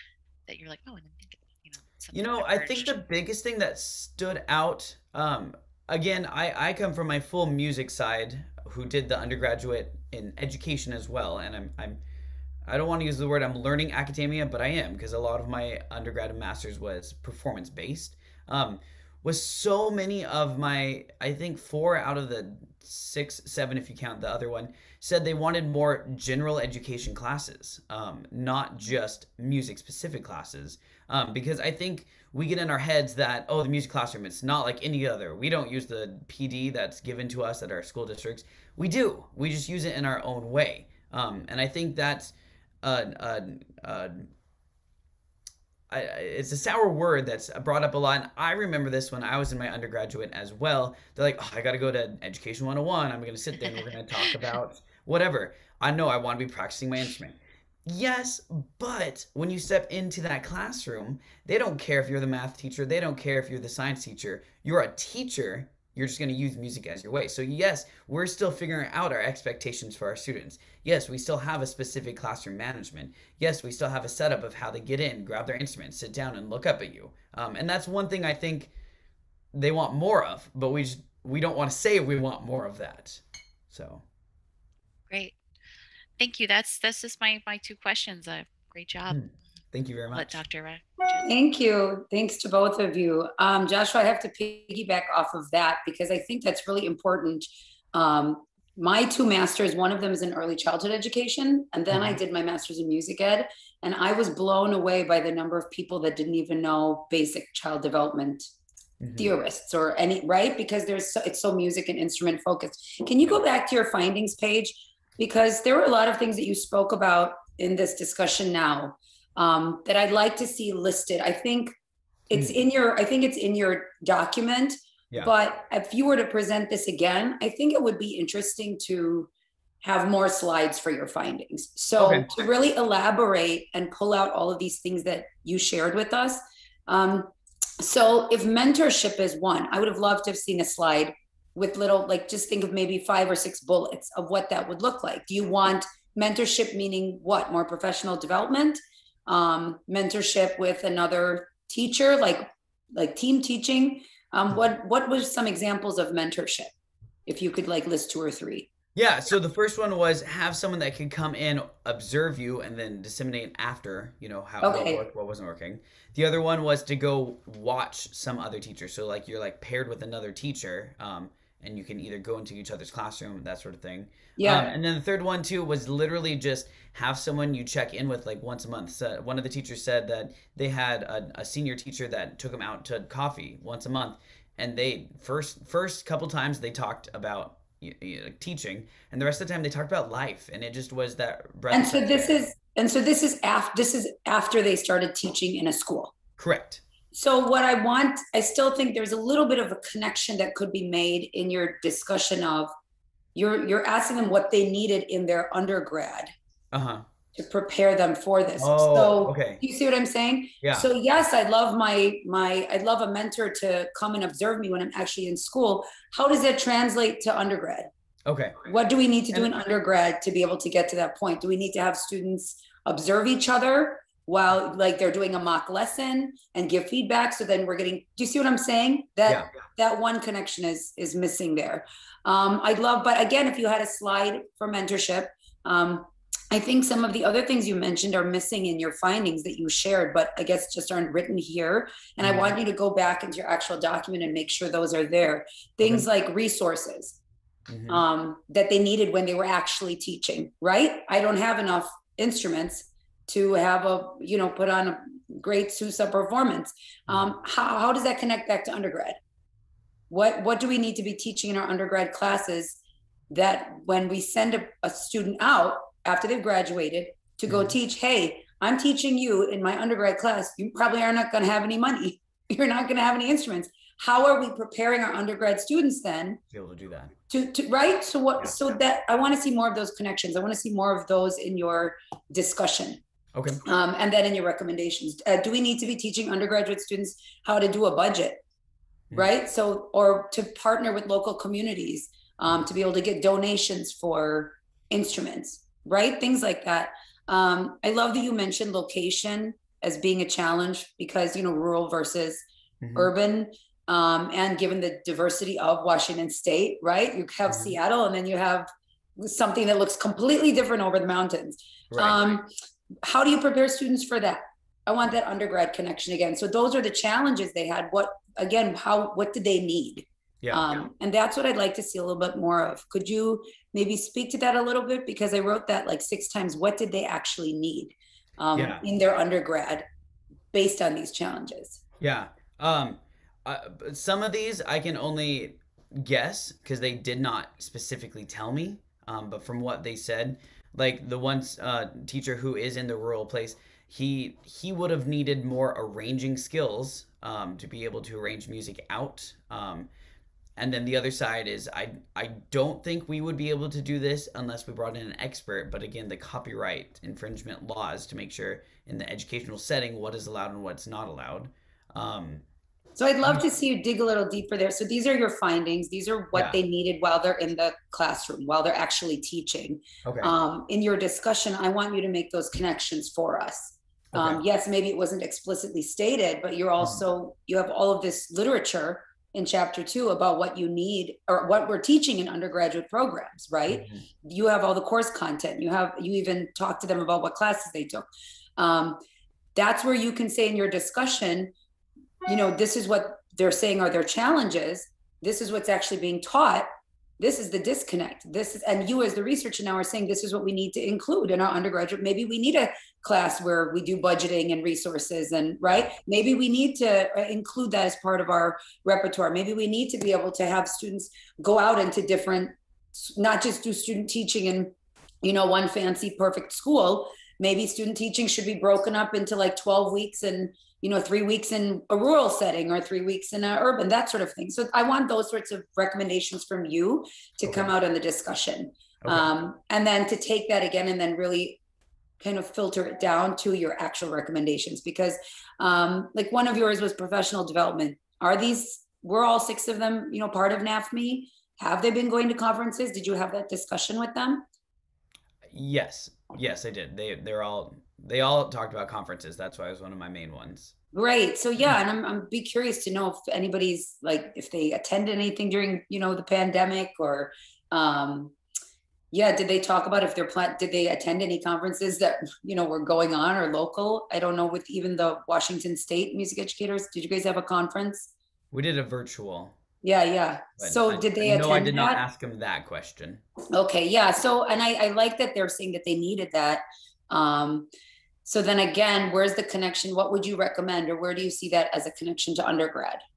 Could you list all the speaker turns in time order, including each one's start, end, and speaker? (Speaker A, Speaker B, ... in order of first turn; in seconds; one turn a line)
Speaker A: 0.5-2.9
Speaker B: 2.1-12.0
Speaker B: 12.7-44.3
Speaker B: 45.9-78.7
Speaker B: 79.5-84.0
Speaker A: 85.1-85.3
Speaker A: 86.2-89.2
Speaker B: 89.1-90.4
Speaker A: 90.1-91.3
Speaker C: 91.2-108.5
Speaker B: 101.9-102.2
Speaker B: 109.0-109.3
Speaker C: 109.2-121.7
Speaker C: 122.3-129.3
Speaker B: 122.3-122.6
Speaker C: 129.8-156.7
Speaker B: 132.0-132.3
Speaker C: 157.3-158.7
Speaker B: 158.9-192.4
Speaker C: 164.6-165.0
Speaker C: 174.4-174.7
Speaker C: 191.7-196.1
Speaker B: 196.4-196.8
Speaker C: 197.1-202.7
Speaker C: 203.3-206.3
Speaker B: 206.7-207.1
Speaker C: 207.3-217.9
Speaker B: 208.6-209.6
Speaker B: 218.2-218.6
Speaker C: 218.6-247.2
Speaker B: 242.2-242.5
Speaker B: 247.7-248.0
Speaker C: 247.9-259.2
Speaker C: 260.1-262.8
Speaker C: 263.3-276.4
Speaker B: 267.5-267.7
Speaker B: 276.5-277.1
Speaker C: 277.3-283.0
Speaker B: 283.3-283.6
Speaker C: 283.6-288.4
Speaker C: 289.1-302.4
Speaker B: 302.8-303.1
Speaker C: 302.9-312.5
Speaker B: 307.5-307.8
Speaker B: 311.9-312.2
Speaker C: 313.0-329.9
Speaker B: 320.4-320.8
Speaker B: 328.5-328.8
Speaker C: 330.5-331.8
Speaker B: 332.0-349.9
Speaker B: 350.6-362.4
Speaker C: 362.9-388.1
Speaker B: 370.0-370.3
Speaker B: 374.1-374.4
Speaker B: 383.7-384.0
Speaker C: 388.6-389.0
Speaker C: 389.5-391.5
Speaker C: 392.2-431.6
Speaker B: 429.0-429.3
Speaker C: 432.2-444.4
Speaker B: 445.5-450.7
Speaker C: 450.9-458.3
Speaker C: 459.1-468.1
Speaker B: 468.5-469.5
Speaker C: 469.8-472.0
Speaker B: 470.6-473.2
Speaker C: 473.5-477.7
Speaker C: 478.2-483.0